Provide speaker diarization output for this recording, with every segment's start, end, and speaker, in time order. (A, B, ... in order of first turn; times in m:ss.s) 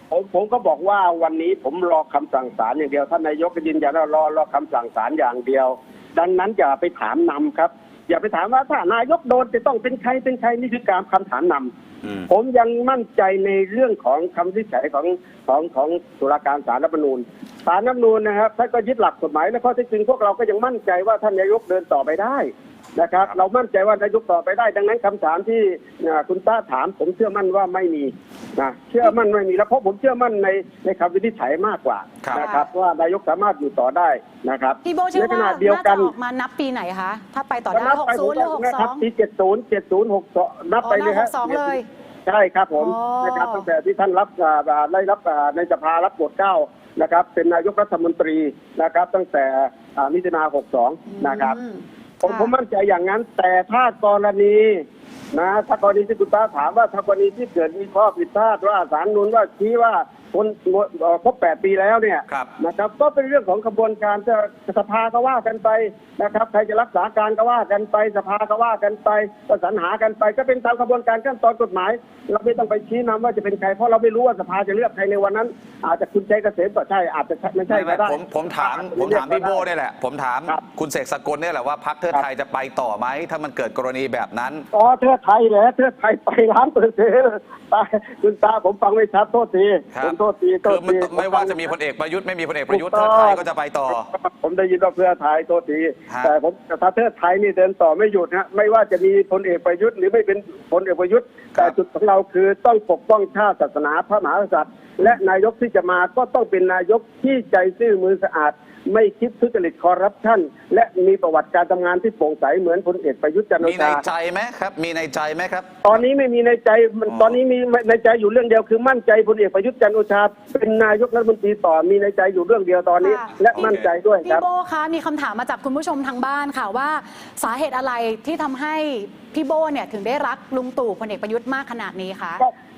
0:00.1-0:11.7 A
0:12.0-0:12.3 B
0:12.3-0:36.1 A
0:32.4-0:32.7 C
0:34.8-0:39.0 C
0:37.7-0:51.6 A
0:40.8-0:41.8 C
0:42.8-0:43.6 C
0:51.1-0:52.5 C
0:52.2-1:19.7 A
1:17.7-1:24.6 B
1:24.7-1:31.7 A
1:29.9-1:34.1 B
1:32.7-1:54.0 A
1:53.6-1:56.0 B
1:55.8-2:04.4 A
1:57.1-1:57.4 B
2:03.0-2:03.3 C
2:03.4-2:03.9 B
2:04.2-2:12.4 C